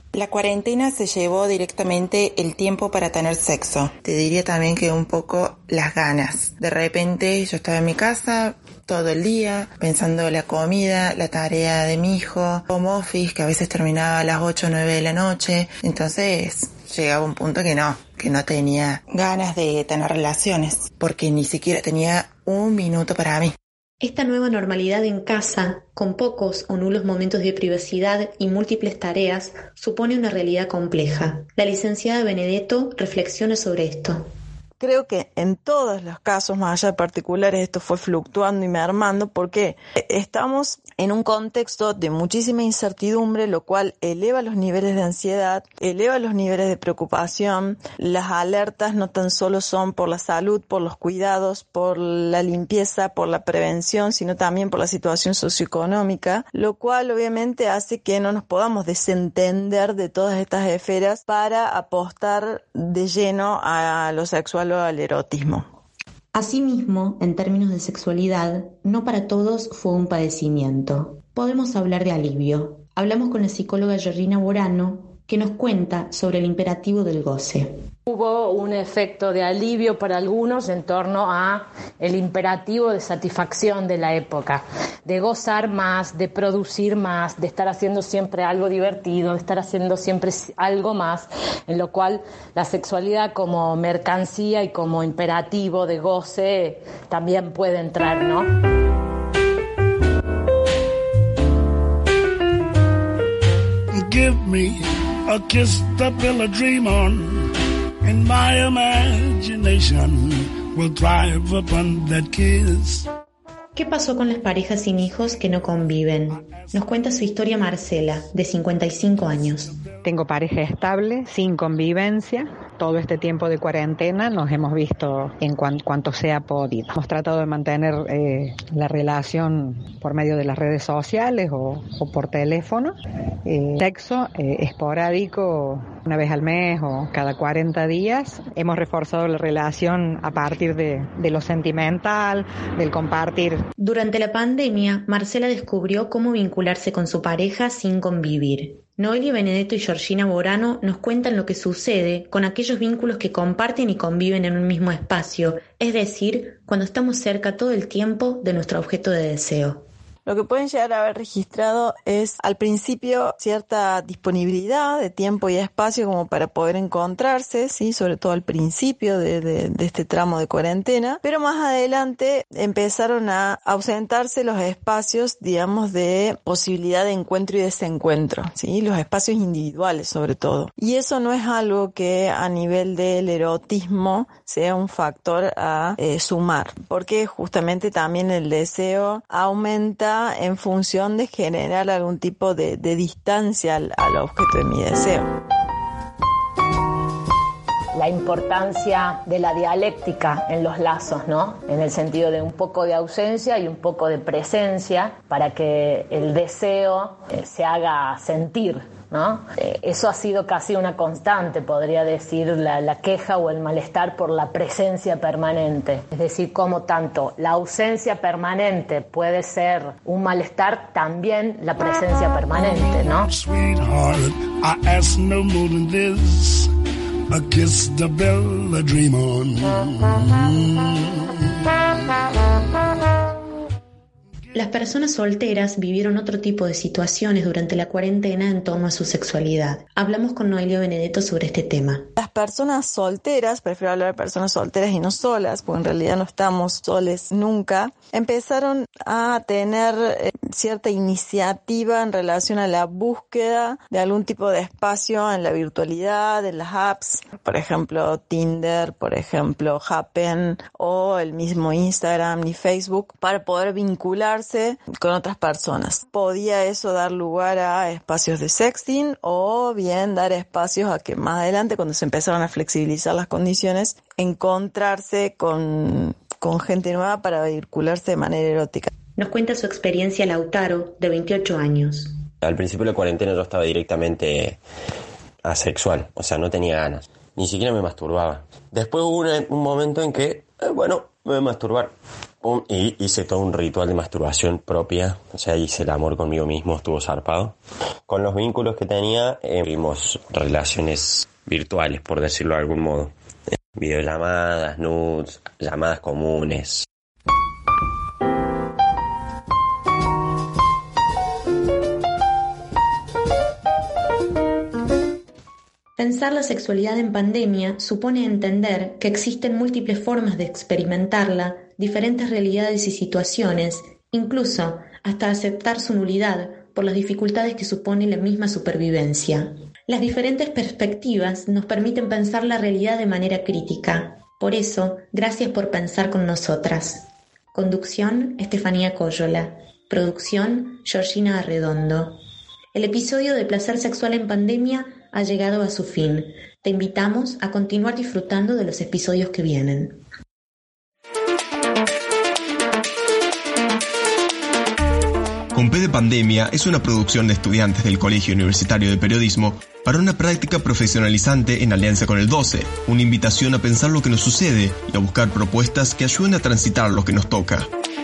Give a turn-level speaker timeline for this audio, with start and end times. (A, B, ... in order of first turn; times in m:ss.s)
0:00.1-0:23.5 A
0:24.0-0:34.2 B
0:34.8-1:05.6 C
1:06.3-1:17.7 B
1:18.1-1:38.5 D
1:44.0-1:47.5 E
1:48.0-1:53.1 E
1:53.7-1:59.7 B
1:56.3-1:56.7 E
2:00.0-2:23.6 F
2:23.8-2:39.8 B
2:40.2-3:15.3 C
3:17.9-3:43.3 D
3:43.3-3:46.7 E
3:47.3-3:51.7 E
3:54.5-4:02.1 B
4:02.2-4:38.9 C
4:39.2-4:42.2 B
4:42.4-4:44.6 G
4:45.4-4:51.9 G
4:52.4-4:57.5 G
4:58.1-5:03.1 G
5:03.7-5:06.8 G
5:16.0-5:42.2 B
5:42.7-5:50.0 B
5:55.5-6:07.7 H